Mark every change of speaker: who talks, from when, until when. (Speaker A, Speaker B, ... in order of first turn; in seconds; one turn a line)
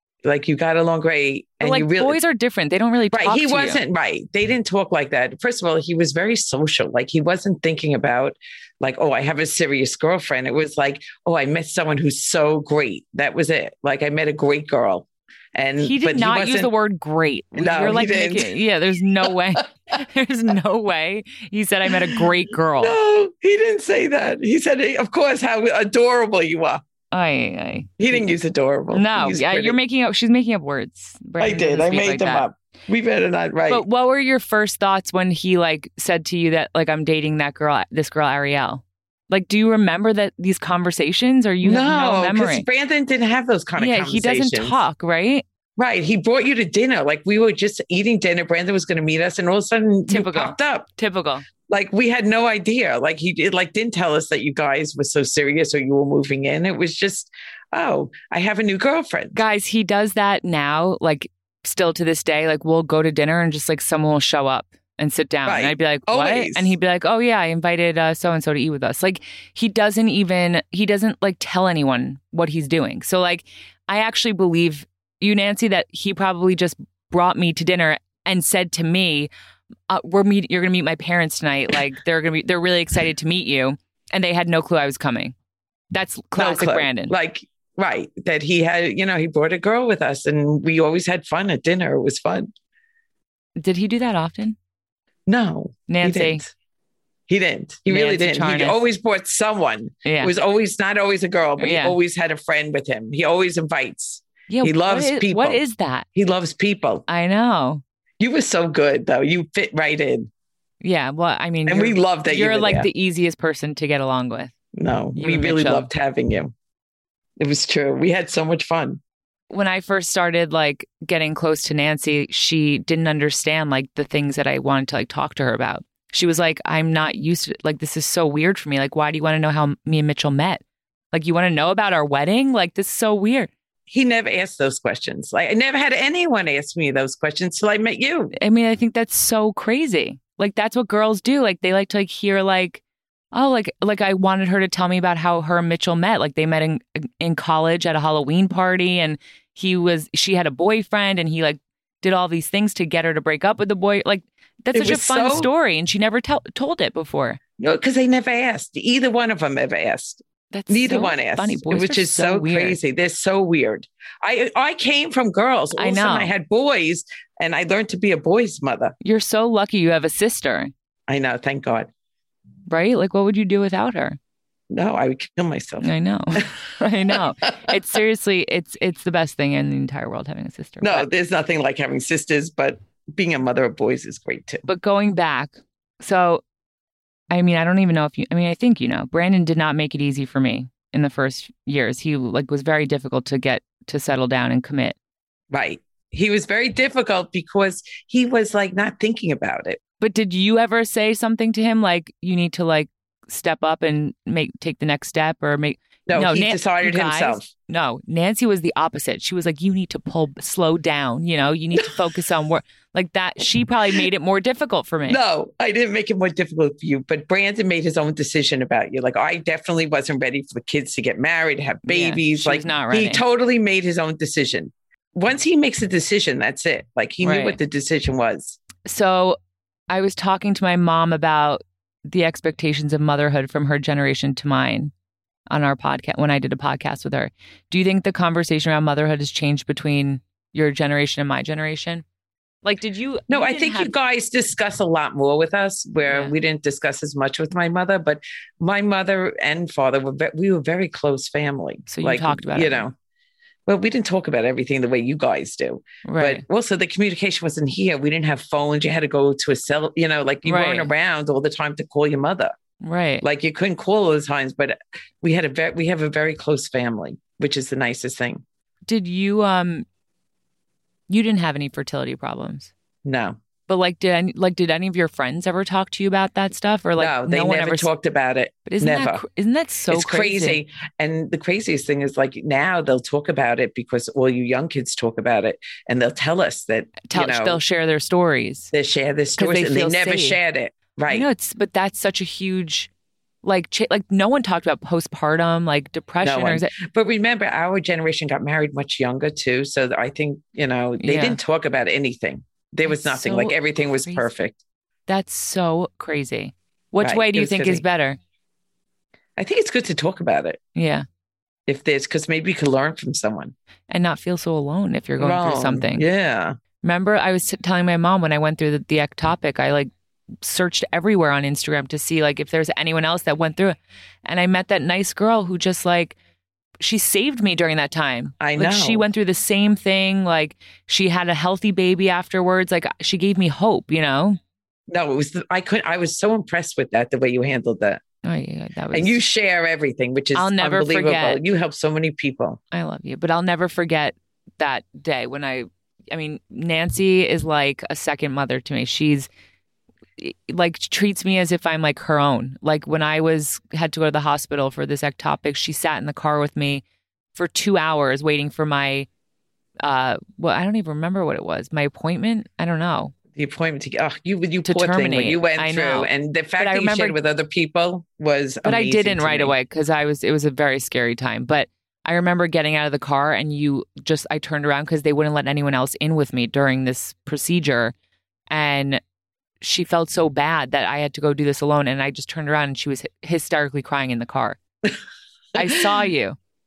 Speaker A: 0.2-2.2
Speaker B: 1.6-3.8
Speaker A: 3.1-16.7
Speaker B: 15.8-23.0
Speaker A: 17.5-18.5
Speaker A: 21.9-22.2
Speaker A: 22.8-26.8
Speaker B: 27.1-28.3
Speaker A: 28.0-29.8
Speaker B: 28.9-32.4
Speaker A: 31.4-33.8
Speaker B: 33.7-42.7
Speaker A: 41.6-44.8
Speaker B: 43.8-45.4
Speaker A: 45.8-50.9
Speaker B: 50.1-51.5
Speaker A: 51.7-59.4
Speaker B: 59.3-79.3
Speaker A: 65.5-66.8
Speaker B: 79.9-85.3
Speaker B: 85.9-87.1
Speaker A: 86.3-92.5
Speaker B: 93.6-94.6
Speaker A: 95.3-96.5
Speaker B: 95.9-96.4
Speaker A: 97.3-105.6
Speaker B: 97.9-98.8
Speaker B: 100.0-100.3
Speaker B: 101.6-102.0
Speaker B: 104.5-106.1
Speaker A: 106.1-107.0
Speaker B: 107.1-107.8
Speaker A: 108.2-110.3
Speaker B: 110.8-114.5
Speaker A: 111.7-112.9
Speaker A: 114.7-116.5
Speaker B: 115.2-115.9
Speaker A: 117.4-119.0
Speaker B: 119.5-133.5
Speaker A: 133.9-138.3
Speaker B: 138.3-157.4
Speaker A: 154.7-155.5
Speaker A: 157.6-168.9
Speaker B: 160.5-162.8
Speaker B: 165.8-166.3
Speaker B: 169.0-170.7
Speaker A: 171.1-171.9
Speaker B: 172.7-174.2
Speaker A: 174.7-176.5
Speaker B: 175.8-181.1
Speaker A: 177.1-177.7
Speaker A: 180.8-184.7
Speaker B: 184.7-186.4
Speaker B: 187.3-195.0
Speaker A: 195.5-199.8
Speaker B: 200.0-215.2
Speaker A: 206.1-207.5
Speaker A: 215.1-228.6
Speaker B: 221.8-223.2
Speaker B: 227.2-227.6
Speaker B: 228.8-229.4
Speaker B: 229.9-234.9
Speaker B: 235.5-242.0
Speaker B: 242.6-243.9
Speaker A: 243.3-252.9
Speaker B: 246.1-246.3
Speaker B: 251.9-252.8
Speaker A: 253.7-262.5
Speaker B: 256.0-256.4
Speaker B: 260.4-260.9
Speaker B: 262.8-263.2
Speaker A: 263.2-268.4
Speaker B: 268.9-269.9
Speaker B: 271.1-272.7
Speaker A: 273.0-273.4
Speaker B: 273.7-277.9
Speaker A: 277.0-279.2
Speaker B: 278.6-280.6
Speaker A: 279.9-287.6
Speaker B: 287.1-288.7
Speaker A: 288.7-291.3
Speaker B: 289.4-290.4
Speaker B: 291.1-292.9
Speaker B: 293.4-296.7
Speaker A: 296.2-304.6
Speaker B: 301.0-301.4
Speaker B: 302.9-304.3
Speaker B: 305.1-308.2
Speaker A: 307.0-307.8
Speaker A: 309.4-310.6
Speaker B: 310.7-311.0
Speaker A: 311.7-313.5
Speaker B: 313.9-316.0
Speaker A: 315.2-316.5
Speaker B: 316.8-319.9
Speaker B: 320.4-326.2
Speaker B: 326.8-334.4
Speaker A: 328.4-329.0
Speaker A: 334.9-338.0
Speaker B: 338.2-339.2
Speaker A: 338.9-342.6
Speaker B: 340.3-341.4
Speaker B: 342.7-349.3
Speaker B: 350.2-356.8
Speaker B: 357.3-359.1
Speaker B: 359.8-363.1
Speaker A: 363.3-369.5
Speaker B: 364.6-367.1
Speaker B: 368.6-377.9
Speaker B: 378.5-379.0
Speaker B: 379.6-384.6
Speaker B: 385.5-386.4
Speaker A: 385.6-385.9